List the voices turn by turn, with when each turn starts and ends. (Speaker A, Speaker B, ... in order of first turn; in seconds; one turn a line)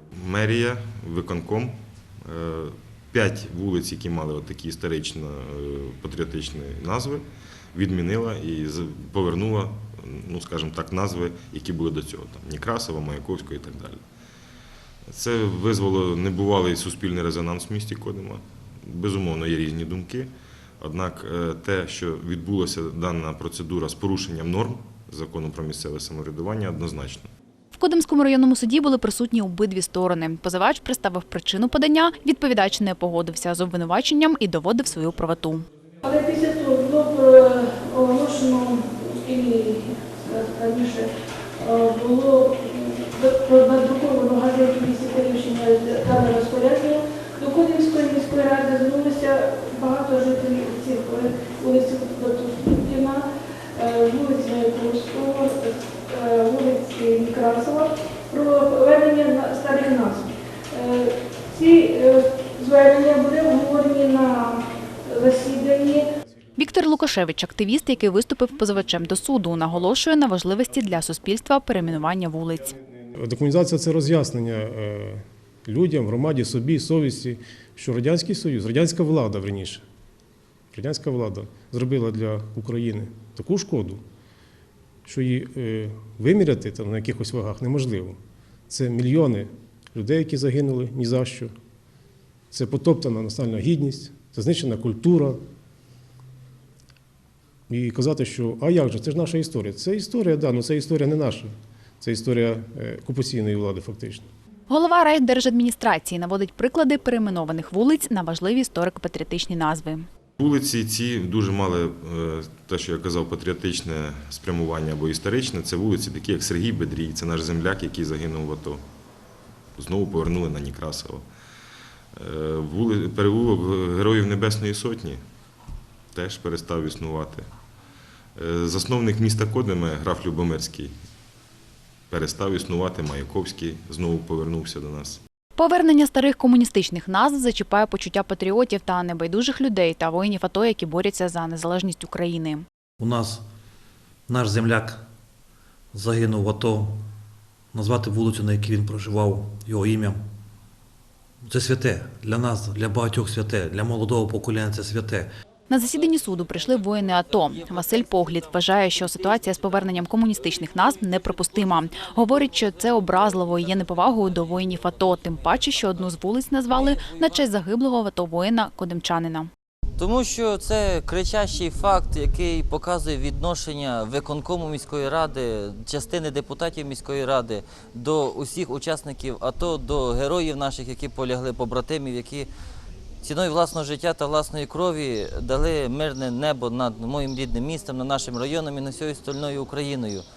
Speaker A: 0.1-14.0
Speaker A: 15.1-27.3
Speaker B: 27.7-35.6
Speaker C: 36.0-53.2
Speaker C: 53.8-66.0
Speaker B: 66.6-72.7
Speaker D: 73.1-79.8
Speaker D: 80.7-84.0
Speaker D: 85.0-88.2
Speaker D: 88.7-91.5
Speaker D: 92.5-95.4
Speaker D: 97.7-104.2
Speaker B: 104.7-110.0
Speaker A: 110.4-118.8
Speaker A: 119.8-121.2
Speaker A: 122.2-125.2
Speaker A: 126.1-127.5
Speaker A: 128.3-130.9
Speaker A: 132.1-135.2
Speaker B: 135.6-142.6
Speaker E: 143.0-143.4
Speaker E: 144.3-145.0
Speaker E: 145.9-147.1
Speaker E: 147.7-150.2
Speaker E: 151.5-155.3
Speaker B: 155.7-169.5
Speaker F: 170.0-182.5
Speaker F: 183.2-190.2